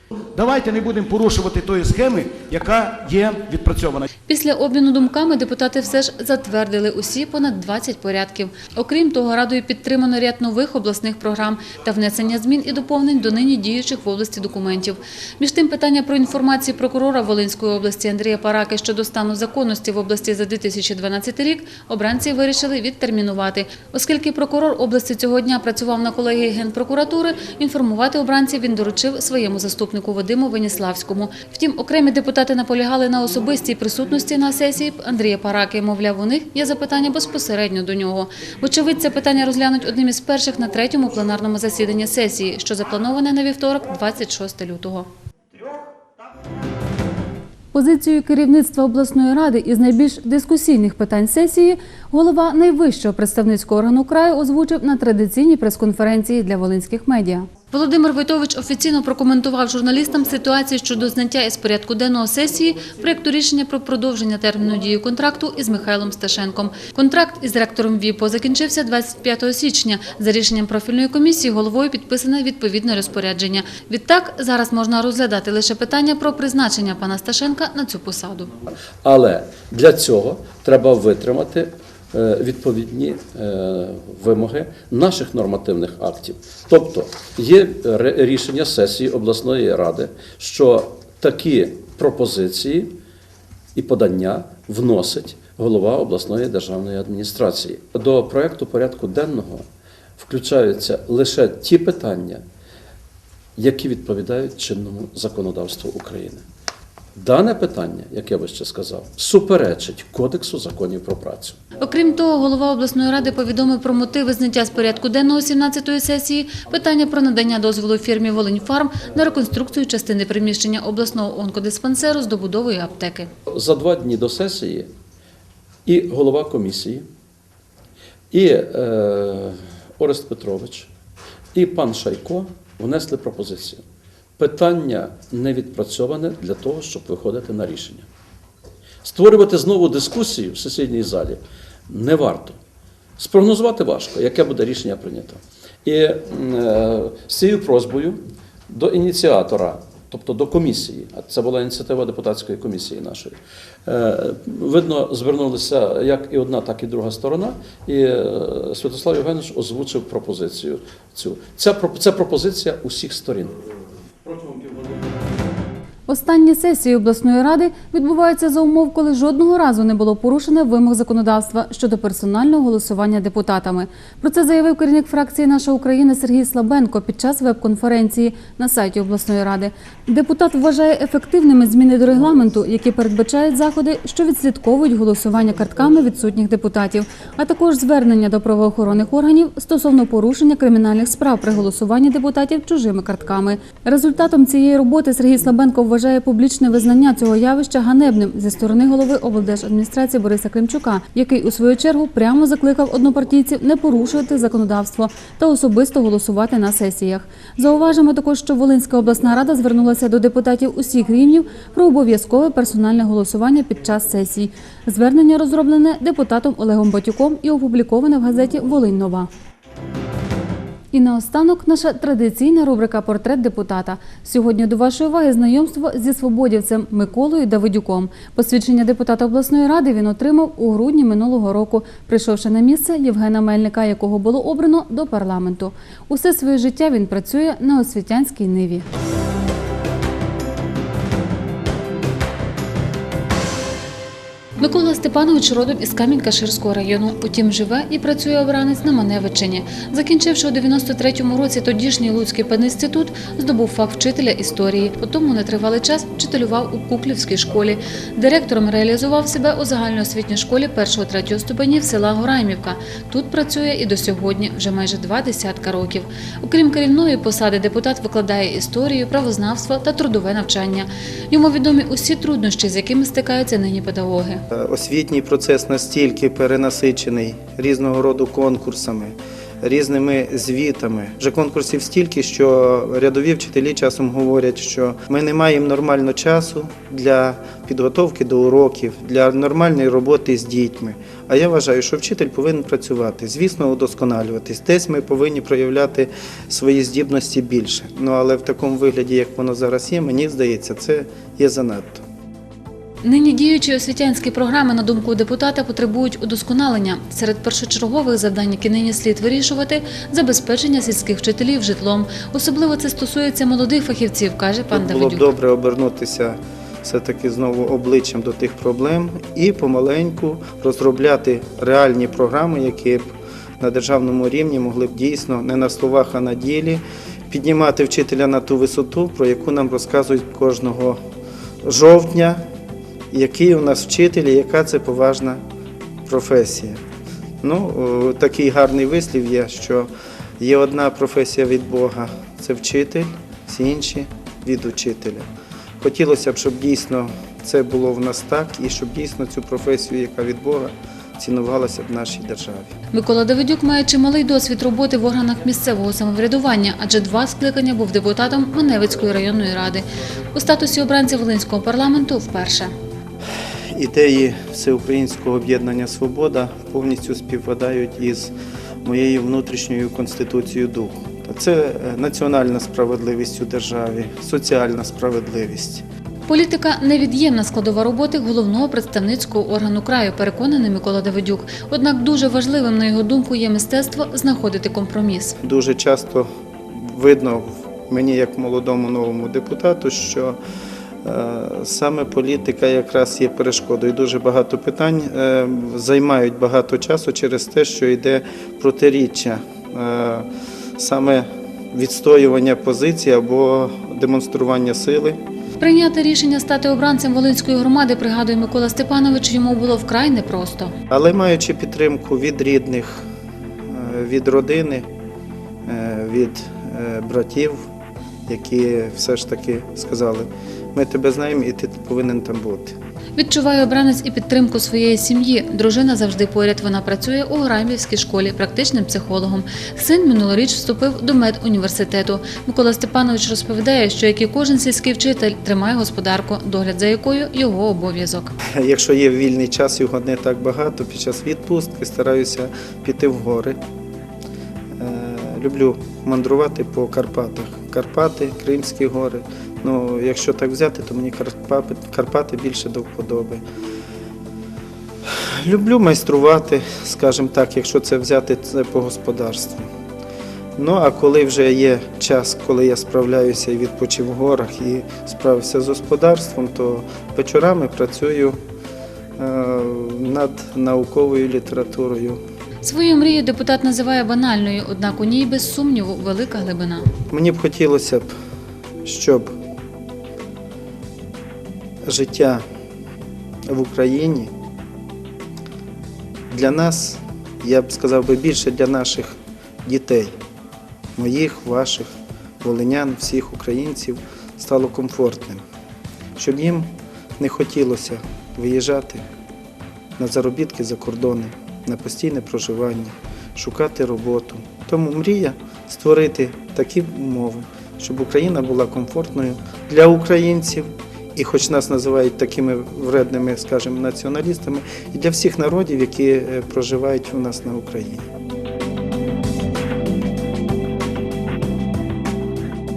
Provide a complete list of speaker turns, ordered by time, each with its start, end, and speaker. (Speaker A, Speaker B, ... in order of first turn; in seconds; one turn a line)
Speaker A: 0.3-4.1
Speaker B: 4.3-45.1
Speaker B: 47.7-78.5
Speaker C: 79.0-92.9
Speaker C: 93.7-99.7
Speaker C: 100.2-102.4
Speaker C: 103.6-106.4
Speaker C: 107.1-111.6
Speaker B: 111.8-123.3
Speaker C: 123.5-124.9
Speaker C: 125.8-127.1
Speaker C: 128.3-130.9
Speaker C: 131.5-133.8
Speaker C: 134.4-138.1
Speaker C: 139.0-142.6
Speaker C: 143.2-163.6
Speaker C: 164.2-165.6
Speaker B: 166.1-219.3
Speaker B: 220.9-238.8
Speaker B: 244.6-274.4
Speaker D: 274.5-302.0
Speaker B: 303.0-315.3
Speaker D: 314.7-331.0
Speaker D: 331.6-332.4
Speaker D: 333.1-335.4
Speaker D: 336.1-336.8
Speaker D: 337.4-345.2
Speaker D: 345.8-352.7
Speaker B: 352.9-362.7
Speaker D: 363.7-368.3
Speaker D: 368.8-375.8
Speaker B: 376.3-385.4
Speaker D: 385.4-390.4
Speaker D: 391.0-400.3
Speaker D: 400.8-405.2
Speaker B: 405.6-410.7
Speaker D: 410.9-413.0
Speaker D: 413.7-414.9
Speaker D: 415.7-417.7
Speaker D: 418.3-422.8
Speaker B: 423.2-438.3
Speaker D: 438.5-443.6
Speaker D: 444.8-453.4
Speaker D: 455.1-459.7
Speaker D: 460.6-468.4
Speaker D: 469.2-472.2
Speaker B: 472.6-476.9
Speaker D: 477.1-478.1
Speaker D: 478.8-479.3
Speaker D: 481.9-482.4
Speaker D: 483.4-484.3
Speaker D: 486.3-490.1
Speaker D: 490.9-495.4
Speaker D: 496.2-499.0
Speaker D: 500.0-518.1